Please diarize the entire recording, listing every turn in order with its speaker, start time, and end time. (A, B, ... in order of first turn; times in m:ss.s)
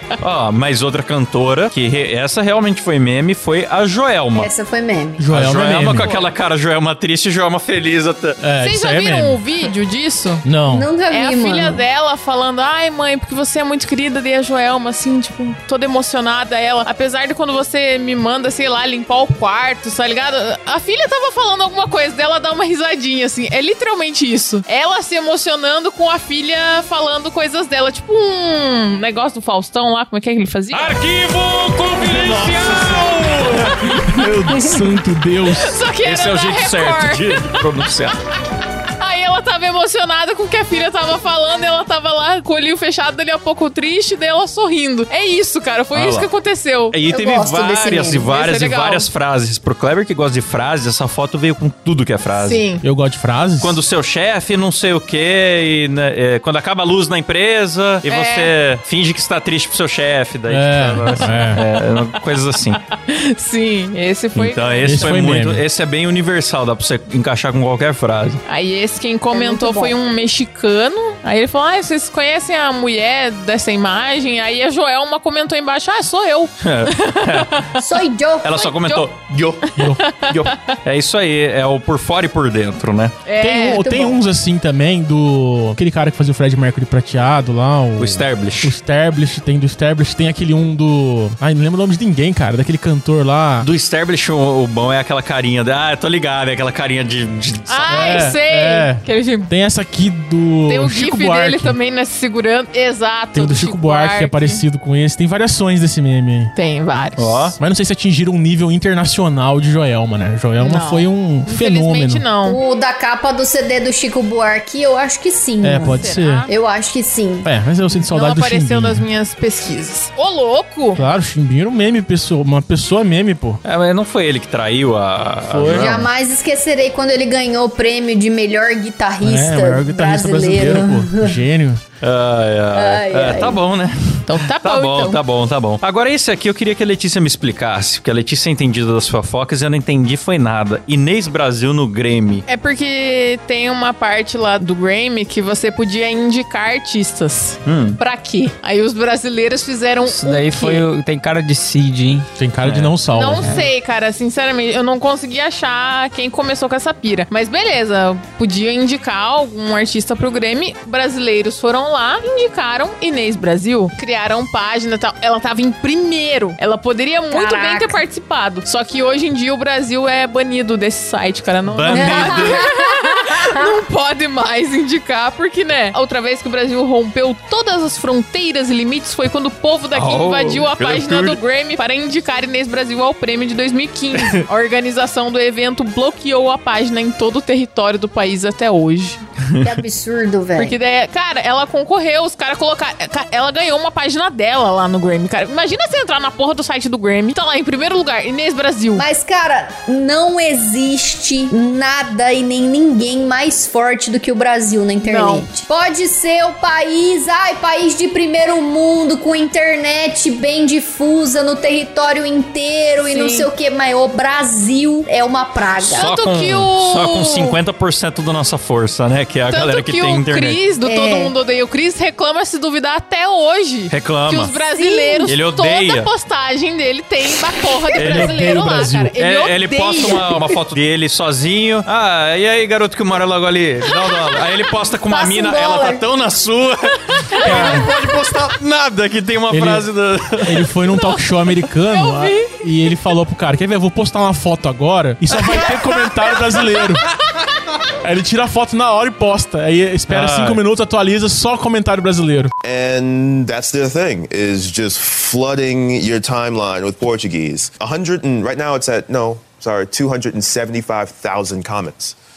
0:00.2-0:04.5 A
0:04.4-0:05.3 B
0:05.2-0:06.1 C
0:05.3-0:08.4 A
0:05.9-0:06.3 D
0:08.4-0:09.4 C
0:08.6-0:10.4 D
0:10.4-0:10.9 C
0:10.7-0:11.8 B
0:11.1-0:31.0 D
0:30.7-0:34.5 A
0:32.0-0:35.8 C
0:35.5-0:37.7 D
0:36.0-0:38.2 A
0:39.0-0:47.0 D
0:46.0-0:46.3 A
0:46.9-0:52.6 A
0:47.1-0:48.3 B
0:48.3-0:49.1 D
0:52.4-0:52.8 D
0:52.8-0:53.8 C
0:53.6-1:02.8 A
0:58.0-0:58.5 D
1:00.5-1:01.6 C
1:01.6-1:01.8 D
1:02.9-1:05.2 D
1:04.4-1:08.4 A
1:04.9-1:05.6 C
1:08.5-1:17.8 D
1:09.3-1:10.0 B
1:16.6-1:17.6 A
1:17.8-1:18.6 B
1:18.4-1:19.7 A
1:18.6-1:19.1 D
1:19.7-1:20.7 D
1:20.2-1:23.2 A
1:23.3-1:23.8 D
1:23.4-1:33.7 C
1:23.7-1:24.2 B
1:28.0-1:28.7 A
1:33.6-1:37.9 A
1:37.7-1:39.5 D
1:37.9-1:41.8 C
1:40.7-1:44.6 D
1:43.3-1:46.5 C
1:46.6-1:47.5 D
1:47.2-1:47.6 A
1:47.6-1:52.3 C
1:50.6-1:52.6 D
1:52.4-1:57.5 B
1:55.6-1:56.5 C
1:55.8-1:56.5 D
1:57.4-1:59.1 C
1:58.1-2:01.0 D
2:01.0-2:03.6 C
2:03.6-2:06.0 A
2:05.5-2:06.1 C
2:05.7-2:11.4 B
2:09.2-2:11.8 C
2:12.0-2:22.4 A
2:12.7-2:13.6 B
2:14.3-2:15.2 D
2:22.5-2:30.9 D
2:27.7-2:28.0 A
2:30.1-2:32.3 E
2:32.4-2:33.5 C
2:32.6-2:33.0 A
2:33.1-3:09.2 D
2:33.4-2:33.7 E
2:47.3-2:48.0 B
2:51.7-2:52.6 A
2:51.9-2:53.8 B
2:59.9-3:01.4 A
3:09.4-3:09.8 A
3:09.6-3:10.8 B
3:10.6-3:19.0 D
3:19.0-3:36.1 B
3:25.0-3:25.5 D
3:33.1-3:33.5 D
3:35.8-3:37.6 D
3:35.8-3:40.6 A
3:39.5-3:50.3 D
3:40.8-3:41.4 B
3:43.9-3:44.6 A
3:44.7-3:45.4 B
3:45.3-3:46.1 A
3:48.0-3:48.3 A
3:48.0-3:49.1 C
3:49.2-4:00.7 A
3:55.1-3:56.0 B
3:57.1-3:57.8 D
3:57.4-3:57.9 C
3:59.5-3:59.9 C
4:00.4-4:07.0 C
4:01.9-4:02.6 D
4:08.0-4:12.5 C
4:10.1-4:10.6 A
4:12.6-4:22.2 F